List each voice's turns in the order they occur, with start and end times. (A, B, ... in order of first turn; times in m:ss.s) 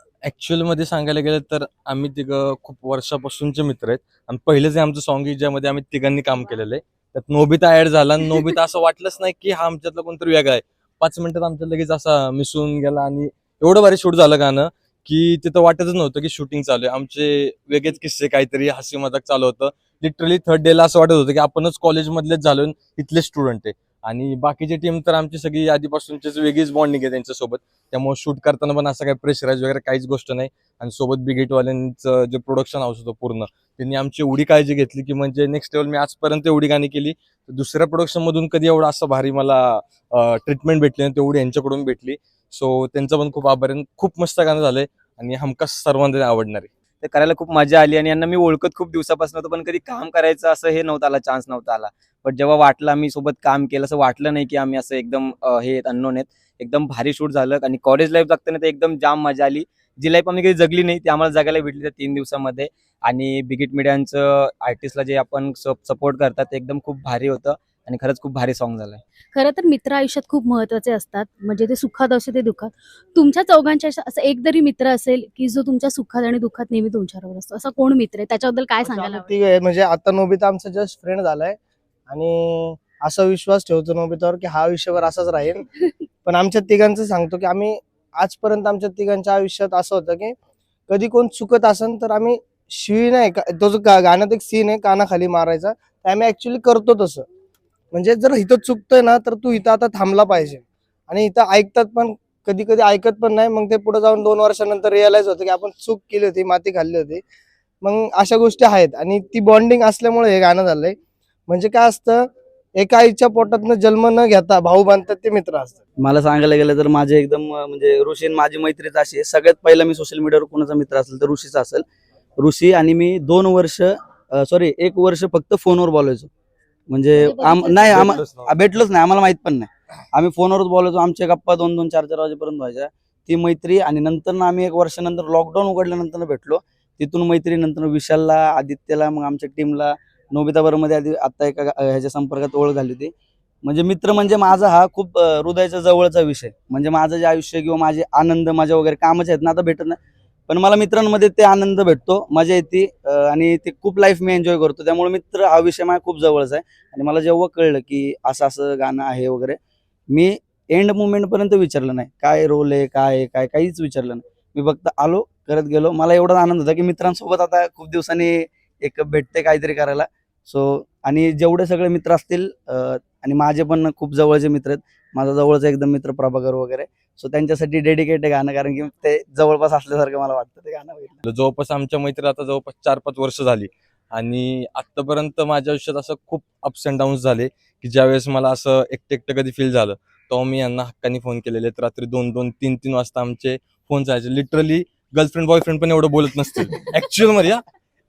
0:00.2-0:46.7 A
0:47.0-1:09.0 B
1:09.3-1:19.3 C
1:18.8-1:21.6 D
1:22.1-1:25.6 D
1:26.2-1:30.3 D
1:30.9-1:37.2 D
1:37.9-1:47.2 D
1:47.8-1:51.0 D
1:51.5-1:55.8 D
1:56.0-2:01.8 E
2:02.4-2:06.3 E
2:06.9-2:23.1 E
2:07.2-2:08.1 C
2:07.9-2:08.5 A
2:23.6-2:30.0 E
2:30.5-2:39.6 E
2:40.1-3:01.2 E
3:01.2-3:17.6 A